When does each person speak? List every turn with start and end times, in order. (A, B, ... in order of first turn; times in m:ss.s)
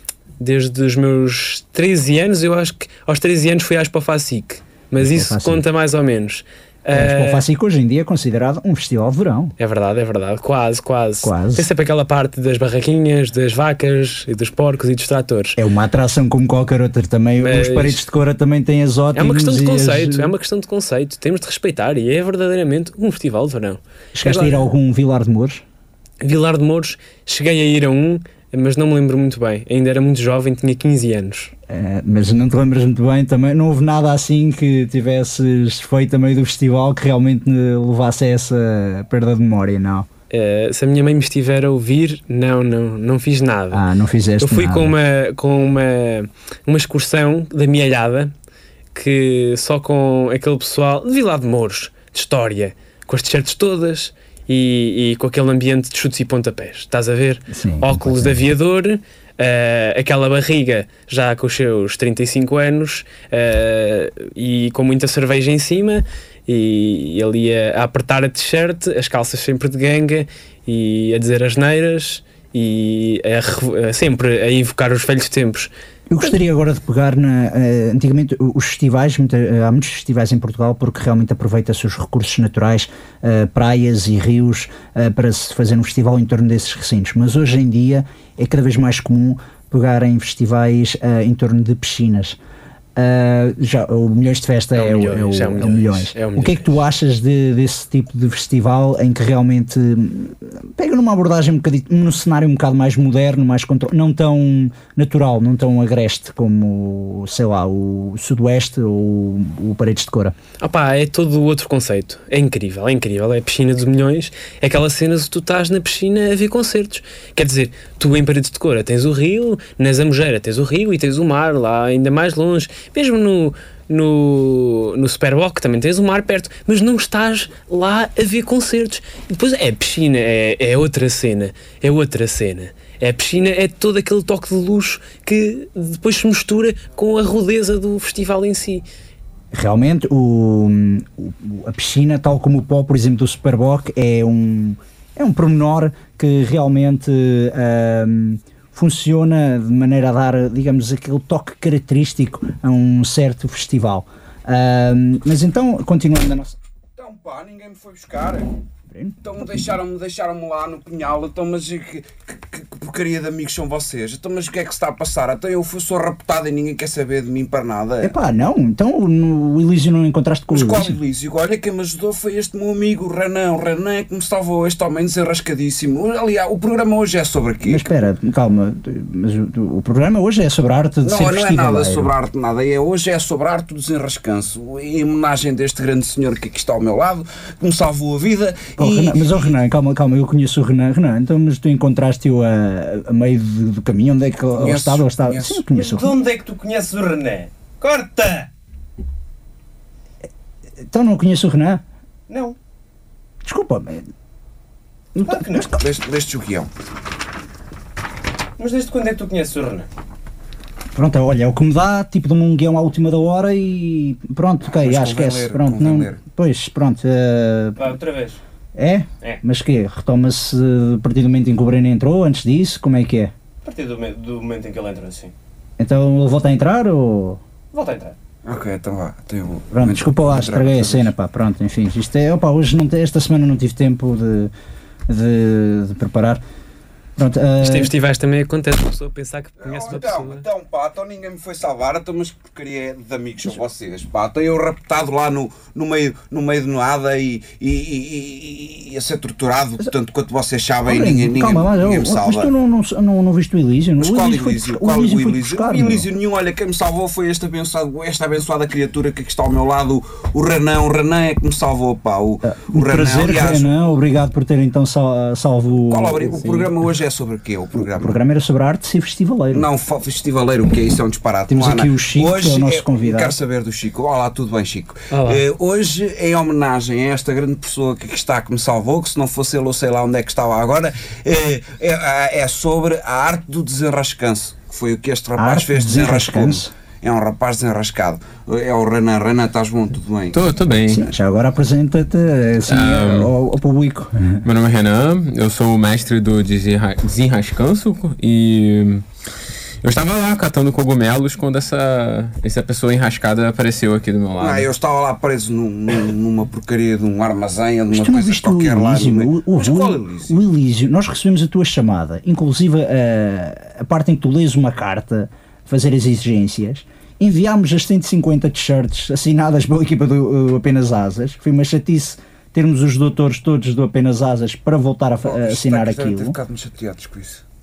0:00.4-0:07.4 A
0:05.0-0:05.6 B
0:06.9-0:09.5 B
0:09.6-0:15.6 A
0:11.2-0:11.6 B
0:15.6-0:20.3 B
0:17.4-0:18.0 A
0:19.1-0:24.6 A
0:24.1-0:25.6 B
0:26.2-0:31.5 A
0:31.7-0:40.1 B
0:40.3-0:43.8 A
0:43.7-0:44.9 B
0:44.4-0:48.3 A
0:48.9-1:15.7 A
0:57.5-0:58.4 B
1:16.1-1:32.4 B
1:33.0-1:50.3 B
1:34.7-1:36.8 A
1:50.6-2:18.8 A
2:19.5-2:36.6 B
2:37.0-2:38.5 C
2:38.9-2:39.2 B
2:39.2-2:48.1 C
2:48.0-2:51.0 B
2:50.5-2:57.9 C
2:57.6-3:02.1 B
3:01.0-3:09.5 C
3:08.8-3:16.2 B
3:14.5-3:15.6 C
3:15.7-3:18.5 D
3:20.9-3:21.8 B
3:22.3-3:22.6 D
3:23.4-3:24.1 B
3:25.2-3:25.7 D
3:25.2-3:25.7 B
3:25.7-3:26.7 C
3:28.6-3:29.9 D
3:30.9-3:37.9 B
3:34.7-3:36.2 C
3:37.8-3:38.4 D
3:38.7-3:43.3 B
3:43.6-3:45.3 D
3:45.8-3:47.4 B
3:47.7-3:48.1 D
3:48.4-3:51.1 C
3:49.7-3:54.5 B
3:55.1-3:56.4 B
3:57.2-3:57.9 B
3:57.6-4:00.4 A
3:59.6-4:12.5 C
4:10.8-4:16.1 B
4:14.0-4:23.7 C
4:22.4-4:26.4 B
4:25.9-4:28.2 C
4:27.8-4:29.6 B
4:29.5-4:50.4 C
4:31.5-4:33.4 B
4:35.1-4:35.4 D
4:45.4-4:46.7 B
4:50.3-4:51.0 E
4:50.9-4:54.4 B
4:52.7-4:53.3 E
4:54.4-4:59.0 E
4:59.8-5:04.7 E
5:04.4-5:10.4 C
5:07.9-5:26.4 B
5:25.2-5:27.4 C